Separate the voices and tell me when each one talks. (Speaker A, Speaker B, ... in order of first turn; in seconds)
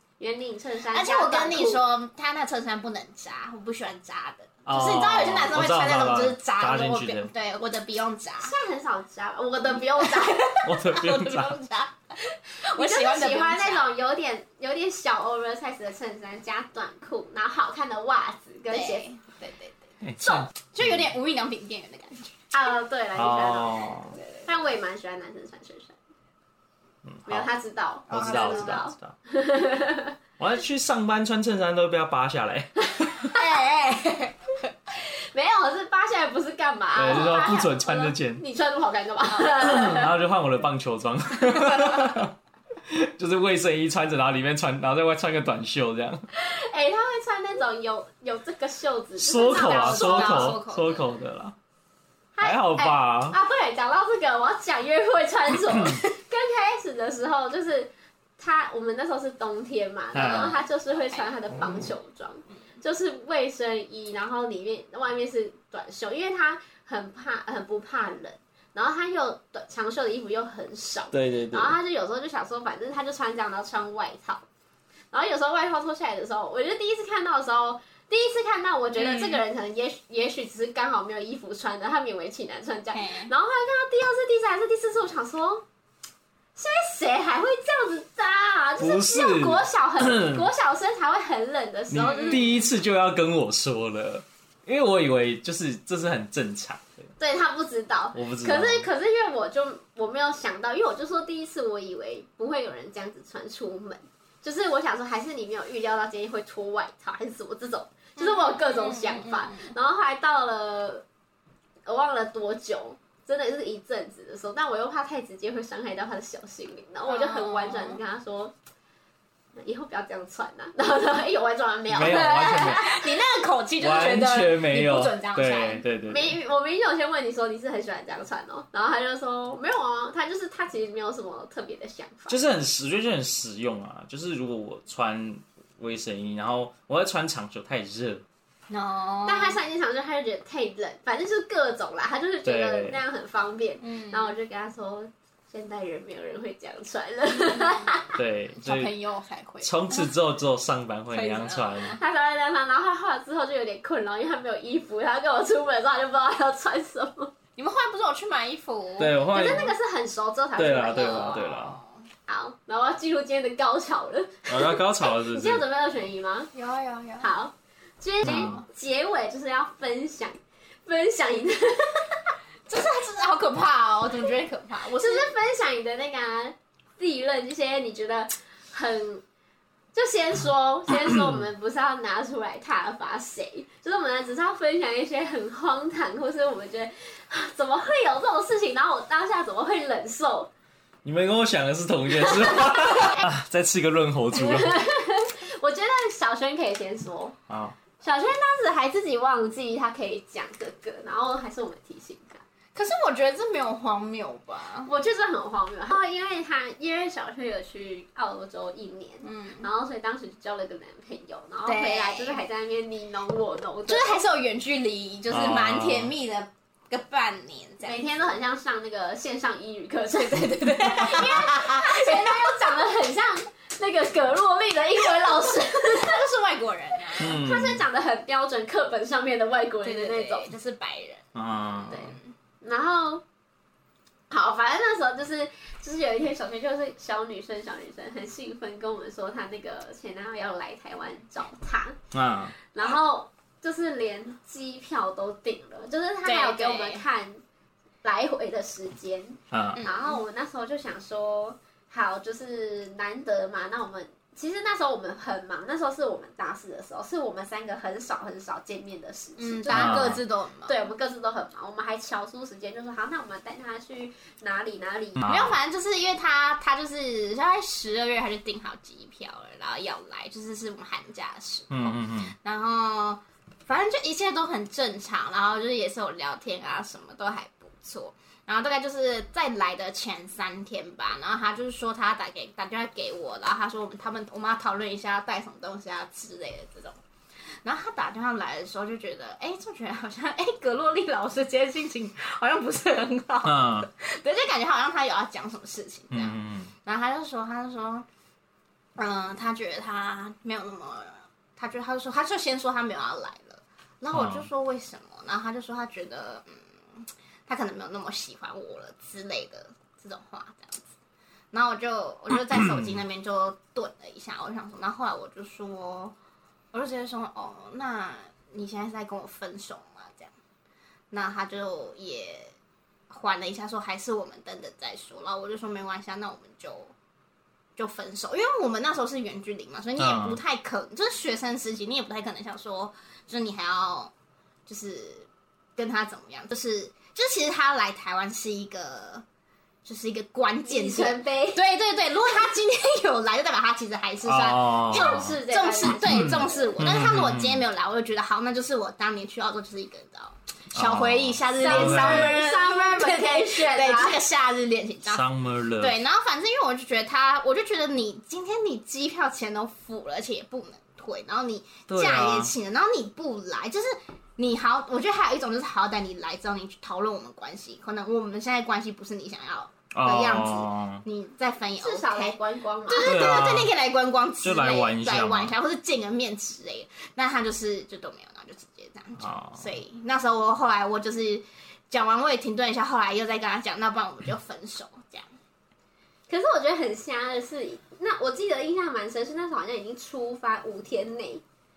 Speaker A: 0.2-1.8, 8.4-10.7, 12.7-19.1, 22.5-25.9, 27.3-30.1, 33.0-33.6, 35.0-40.1, 46.3-50.6, 52.4-74.4, 75.1-85.6, 86.6-92.6, 97.2-111.0, 111.9-118.5, 119.6-123.1, 126.1-132.4, 139.2-148.2, 151.9-157.3, 159.3-161.6, 162.3-166.5, 167.2-172.3, 174.9-179.2, 179.9-190.5, 192.2-193.2, 194.3-197.3, 198.0-202.4, 204.9-214.2, 217.8-226.2, 227.1-230.5, 231.9-233.2, 234.3-242.0, 242.7-247.4, 248.0-265.3, 340.6-341.6, 344.9-346.7, 351.6-354.2, 371.8-373.3, 386.3-391.4
Speaker B: 0.9-8.6, 10.0-13.9, 18.7-22.4, 28.1-28.8, 33.4-34.4, 49.4-51.1, 60.2-61.3, 79.0-79.4, 82.9-83.3, 92.1-92.4, 108.2-109.8, 117.1-118.0, 122.1-125.8, 138.7-139.6, 143.8-144.3, 147.4-148.0, 148.6-150.1, 151.1-152.0, 157.6-159.7, 161.3-162.1, 166.5-167.3, 168.2-168.6, 172.7-175.3, 202.8-204.9, 209.2-209.7, 211.7-212.4, 213.9-218.1, 220.1-222.5, 225.9-227.4, 229.8-231.3, 231.8-232.3, 246.2-247.1, 249.8-250.2, 259.4-260.8, 265.2-287.0, 287.6-298.1, 299.0-310.8, 311.5-316.1, 316.7-320.3, 321.1-322.5, 323.1-326.9, 327.8-334.1, 334.7-339.2, 339.9-355.2, 355.8-385.3
Speaker C: 4.7-7.3, 10.7-11.6, 20.0-21.1, 23.2-24.2, 27.1-27.5, 28.1-29.1, 30.4-33.3, 37.0-38.4, 39.5-42.4, 42.9-46.3, 49.2-51.5, 52.4-53.4, 55.7-56.0, 60.1-60.6, 71.1-71.8, 88.8-90.5, 91.9-97.1, 98.1-98.9, 121.9-123.0, 123.8-126.4, 132.3-138.2, 142.4-143.0, 148.2-148.9, 149.6-152.0, 159.0-159.7, 160.6-161.8, 164.5-165.6, 168.2-168.6, 191.0-194.8, 197.5-197.8, 215.3-216.2, 227.2-227.8, 231.3-232.1, 242.1-242.6, 249.5-249.8, 259.7-260.2, 265.2-265.6, 271.7-272.3, 293.4-293.9, 296.1-296.7, 304.1-304.5, 330.0-330.4, 344.2-345.4, 345.9-347.6, 350.7-352.4, 355.1-356.0, 361.9-362.5, 369.9-371.0, 373.0-373.7, 374.4-375.6, 379.2-379.6